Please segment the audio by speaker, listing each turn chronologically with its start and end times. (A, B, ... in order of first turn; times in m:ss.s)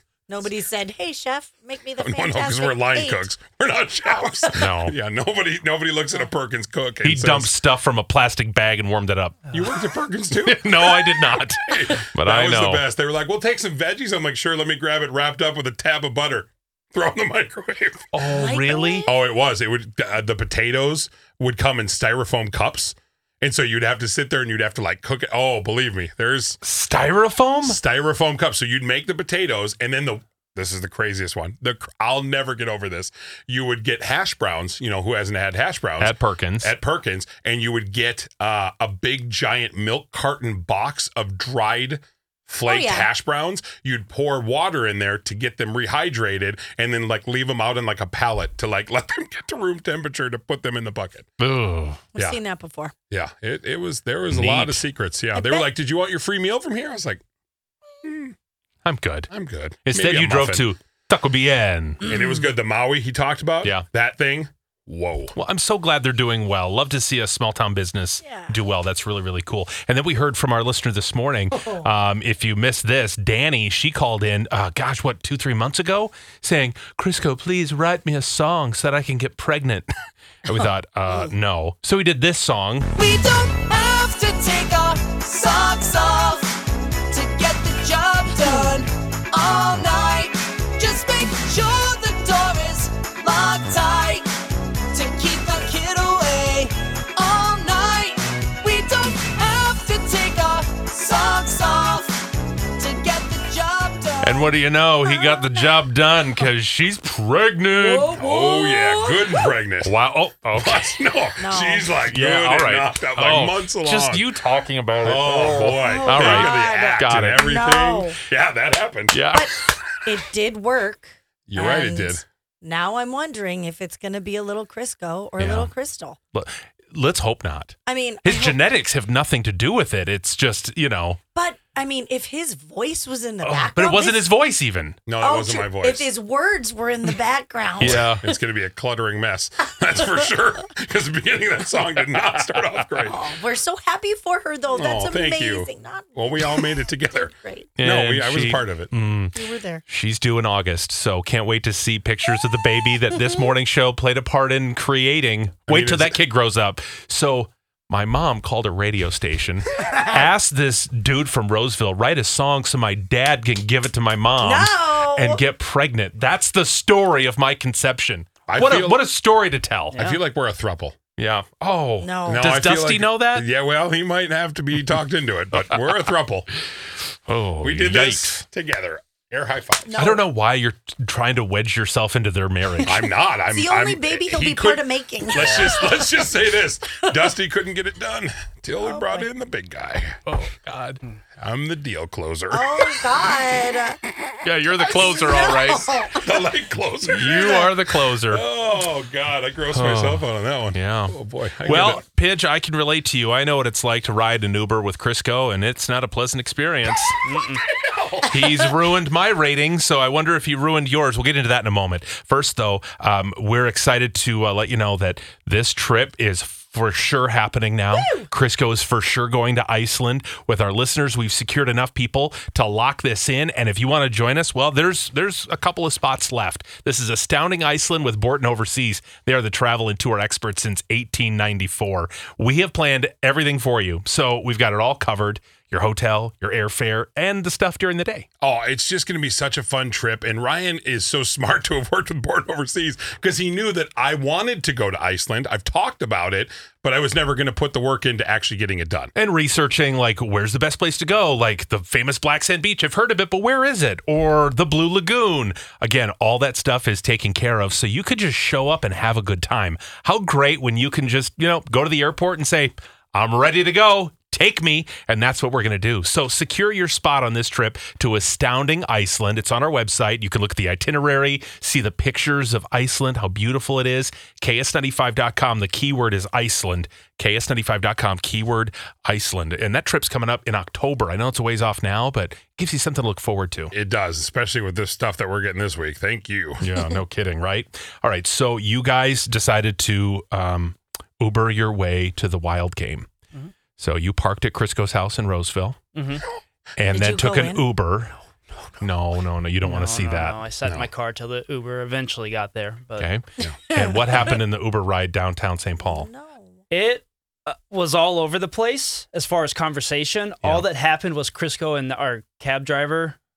0:00.3-0:03.2 A
0:02.0-0:07.5 B
0:04.1-0:04.5 A
0:04.5-0:05.0 C
0:07.0-0:09.6 C
0:09.5-0:18.1 B
0:10.4-0:12.8 C
0:18.1-0:19.1 C
0:18.2-0:19.1 A
0:19.0-0:26.6 B
0:26.6-0:27.8 C
0:27.6-0:51.3 B
0:36.0-0:36.7 C
0:42.6-0:43.1 A
0:51.4-0:52.0 C
0:52.1-0:52.9 A
0:53.1-0:57.2 B
0:54.3-0:54.8 C
0:55.3-0:55.7 A
0:58.0-0:58.3 B
0:58.8-0:59.3 C
0:59.3-1:00.7 B
0:59.8-1:02.0 C
1:02.0-1:05.3 B
1:02.1-1:02.4 A
1:05.3-1:19.9 C
1:08.2-1:08.5 A
1:11.5-1:11.9 A
1:20.4-1:22.9 C
1:22.9-1:34.3 D
1:28.4-1:28.7 A
1:34.9-1:44.5 D
1:44.2-1:48.2 C
1:47.7-1:49.5 D
1:48.2-1:49.9 B
1:49.8-1:51.0 C
1:50.6-1:54.3 B
1:51.4-1:51.9 A
1:52.0-1:57.5 C
1:55.0-1:59.3 B
1:55.8-1:58.2 A
1:59.1-1:59.7 C
1:59.3-2:06.2 A
2:01.5-2:02.2 B
2:05.4-2:05.7 C
2:06.3-2:11.2 C
2:07.9-2:08.6 A
2:11.3-2:14.3 A
2:13.4-2:15.0 C
2:15.1-2:16.1 B
2:15.2-2:18.3 A
2:17.8-2:18.2 C
2:17.8-2:23.2 B
2:23.0-2:26.6 A
2:24.7-2:28.9 B
2:27.4-2:27.7 A
2:27.8-2:29.4 C
2:29.3-2:29.8 A
2:29.9-2:50.0 C
2:35.7-2:36.2 B
2:39.9-2:40.2 A
2:44.4-2:45.4 A
2:48.5-2:49.0 B
2:50.0-2:51.0 B
2:51.2-2:53.5 C
2:52.0-2:52.5 A
2:52.3-2:56.5 B
2:57.3-2:58.4 C
2:57.6-3:00.0 B
2:59.9-3:00.2 A
3:00.0-3:03.1 C
3:02.8-3:10.2 B
3:03.5-3:06.1 A
3:05.4-3:05.7 E
3:08.8-3:09.3 A
3:10.2-3:11.0 C
3:11.4-3:13.0 B
3:12.5-3:14.0 A
3:14.4-3:15.9 C
3:14.8-3:16.4 A
3:16.2-3:17.7 B
3:17.0-3:18.4 C
3:17.4-3:17.7 A
3:18.3-3:22.0 B
3:19.7-3:27.2 C
3:27.2-3:27.6 E
3:27.6-3:28.6 B
3:28.3-3:58.2 C
3:37.9-3:38.3 A
3:58.4-4:09.1 B
4:09.2-4:43.7 C
4:43.7-4:46.7 B
4:46.6-4:53.1 C
4:53.8-4:55.8 C
4:55.9-4:56.2 E
4:56.8-4:58.2 C
4:56.9-4:57.6 A
4:58.8-5:00.4 C
4:59.6-5:03.1 E
5:03.0-5:06.1 C
5:03.7-5:04.4 A
5:05.8-5:06.5 A
5:06.7-5:13.2 E